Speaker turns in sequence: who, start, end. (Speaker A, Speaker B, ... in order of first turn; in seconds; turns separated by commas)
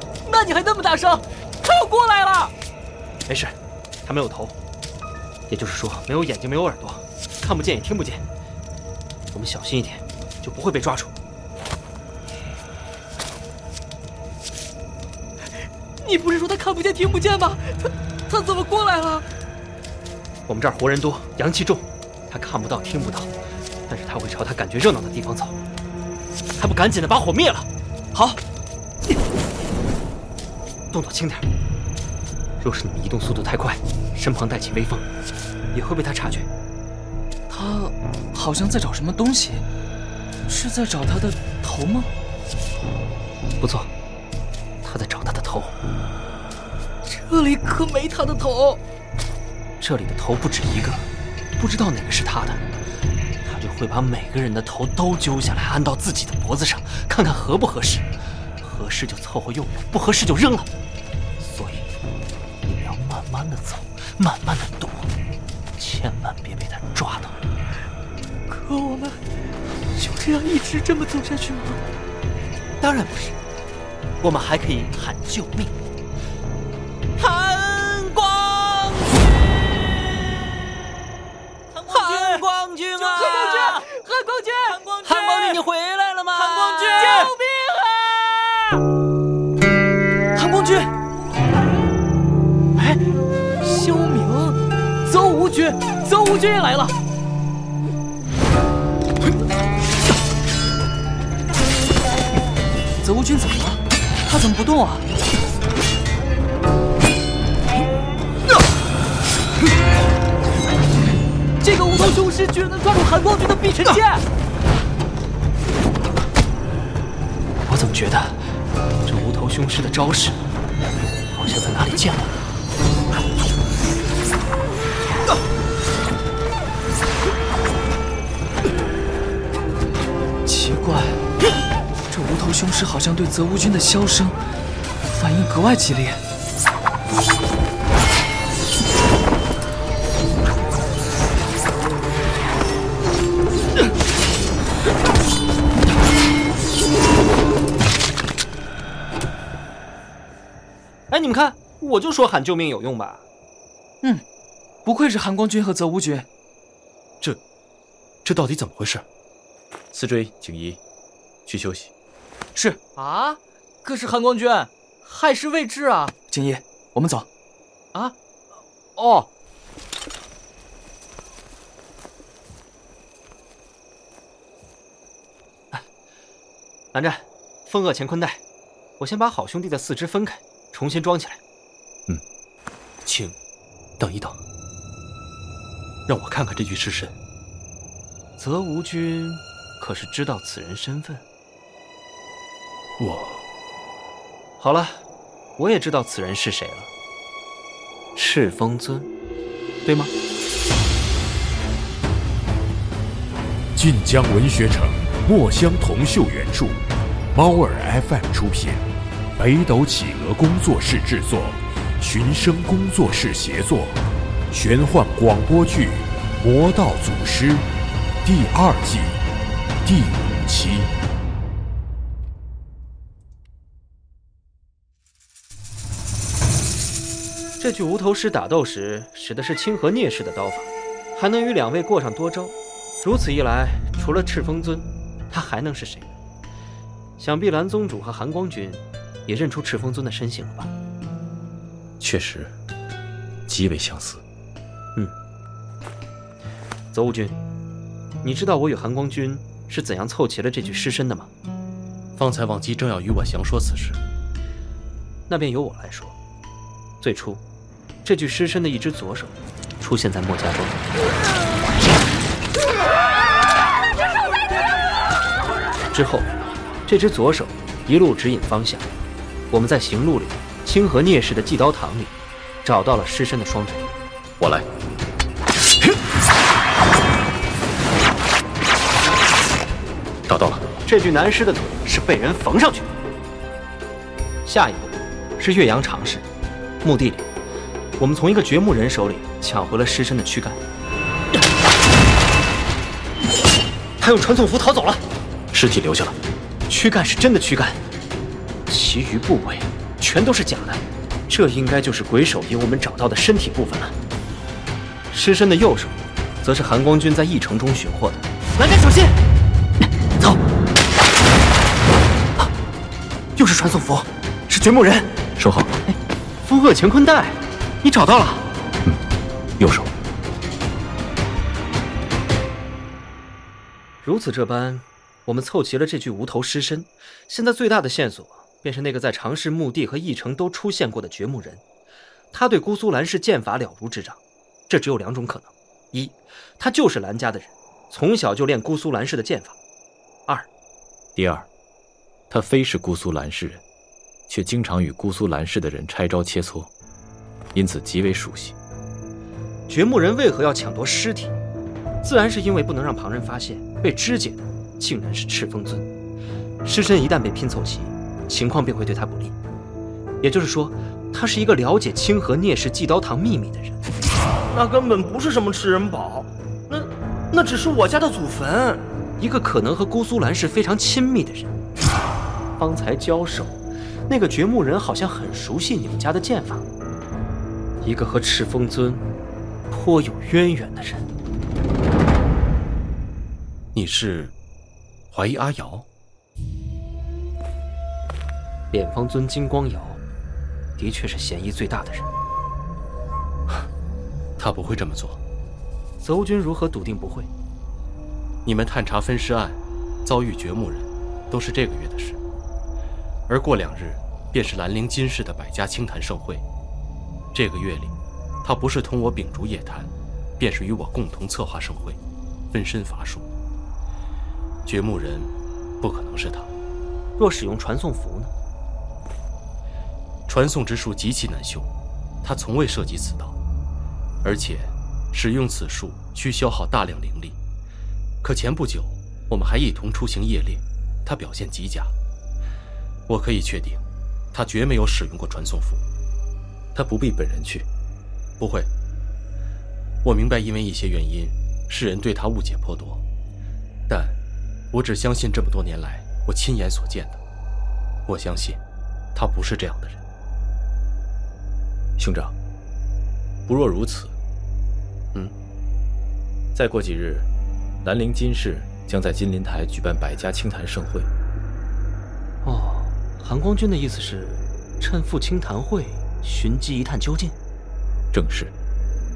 Speaker A: 0.3-2.5, Speaker B: 3.3-4.5, Speaker B: 5.5-8.2, Speaker B: 9.3-11.2, Speaker A: 16.0-19.2, Speaker B: 20.5-23.3, Speaker B: 23.9-25.6, Speaker B: 26.6-27.7, Speaker B: 30.9-31.5, Speaker B: 32.6-35.1, Speaker B: 35.7-36.5, Speaker A: 37.5-39.6, Speaker A: 40.5-42.1, Speaker B: 43.6-43.9, Speaker B: 44.8-45.7, Speaker A: 47.0-48.8, Speaker B: 49.8-51.1, Speaker B: 51.6-52.6, Speaker B: 53.4-58.1, Speaker B: 58.6-60.7, Speaker B: 61.4-61.9, Speaker B: 62.7-65.1, Speaker B: 65.8-67.4, Speaker A: 68.5-69.2, Speaker A: 70.0-71.8, Speaker B: 72.8-73.3, Speaker B: 74.2-75.7, Speaker A: 77.2-79.0, Speaker C: 81.9-82.4, Speaker A: 81.9-87.4, Speaker C: 83.0-83.9, Speaker C: 84.7-85.6, Speaker C: 86.3-87.4, Speaker A: 90.3-90.9, Speaker A: 93.6-96.9, Speaker A: 103.0-105.1, Speaker A: 111.6-114.2, Speaker B: 117.7-118.5, Speaker B: 119.0-120.4, Speaker B: 121.3-122.3, Speaker A: 130.4-131.2, Speaker A: 132.1-134.4, Speaker A: 135.1-136.2, Speaker B: 151.1-153.2, Speaker A: 154.8-156.3, Speaker D: 158.2-159.0, Speaker E: 159.9-160.8, Speaker E: 161.4-161.9, Speaker C: 162.9-163.4, Speaker A: 163.8-164.7, Speaker C: 165.0-166.1, Speaker A: 166.3-167.3, Speaker B: 169.0-169.3, Speaker B: 176.9-178.4, Speaker B: 179.0-181.4, Speaker D: 183.0-183.3, Speaker D: 184.0-184.4, Speaker D: 186.1-187.1, Speaker B: 188.4-191.2, Speaker B: 194.6-195.0, Speaker B: 195.6-196.9, Speaker B: 198.2-199.1, Speaker B: 199.8-200.1, Speaker F: 203.8-208.8, Speaker F: 209.4-214.0, Speaker F: 214.5-217.7, Speaker F: 218.2-219.2, Speaker F: 219.8-220.9, Speaker B: 227.6-236.2, Speaker B: 237.2-240.7, Speaker E: 242.0-242.5, Speaker E: 243.5-244.2, Speaker B: 246.9-247.4, Speaker B: 248.2-251.3, Speaker D: 252.2-254.0, Speaker B: 255.3-256.1, Speaker B: 257.0-257.4, Speaker B: 258.0-260.8, Speaker B: 265.9-266.3, Speaker B: 266.9-268.9, Speaker B: 269.5-273.9, Speaker E: 274.4-274.7, Speaker E: 280.3-280.6, Speaker B: 280.9-282.9, Speaker B: 284.4-286.2, Speaker B: 286.8-287.3, Speaker B: 288.0-290.6, Speaker B: 294.0-295.0, Speaker E: 295.5-296.2, Speaker B: 296.7-297.8, Speaker B: 298.7-303.9, Speaker B: 305.1-309.1, Speaker B: 313.4-315.1, Speaker E: 315.4-315.7, Speaker B: 315.9-318.4, Speaker E: 319.6-319.9, Speaker B: 324.0-331.6, Speaker B: 332.3-339.6, Speaker E: 341.1-341.5, Speaker E: 342.3-343.6, Speaker E: 344.3-346.7, Speaker E: 347.5-348.6, Speaker B: 349.7-351.3, Speaker B: 352.0-355.9, Speaker B: 356.6-359.4, Speaker B: 360.2-363.8, Speaker G: 364.5-368.8, Speaker B: 369.2-371.5, Speaker B: 372.6-376.6, Speaker B: 377.8-379.0, Speaker B: 379.7-381.1, Speaker D: 383.7-384.3, Speaker D: 385.1-385.9, Speaker B: 388.7-390.0, Speaker B: 390.8-392.1, Speaker D: 394.4-395.2, Speaker B: 396.0-397.3, Speaker D: 398.4-402.2, Speaker D: 403.3-406.4, Speaker D: 407.3-412.0, Speaker D: 412.5-413.3, Speaker D: 414.6-416.5, Speaker B: 417.2-418.3, Speaker D: 420.3-421.7, Speaker D: 422.2-423.4, Speaker D: 424.2-427.4, Speaker D: 428.2-431.9, Speaker D: 433.1-433.8, Speaker D: 434.3-435.8, Speaker E: 436.8-437.7, Speaker D: 438.4-438.7, Speaker D: 440.0-443.0, Speaker D: 443.9-444.2, Speaker D: 444.7-447.2, Speaker D: 448.1-448.6, Speaker D: 449.1-450.0, Speaker E: 452.0-452.3, Speaker E: 453.5-454.1, Speaker E: 456.5-457.3, Speaker E: 457.8-461.1, Speaker B: 462.4-467.4, Speaker E: 468.1-468.5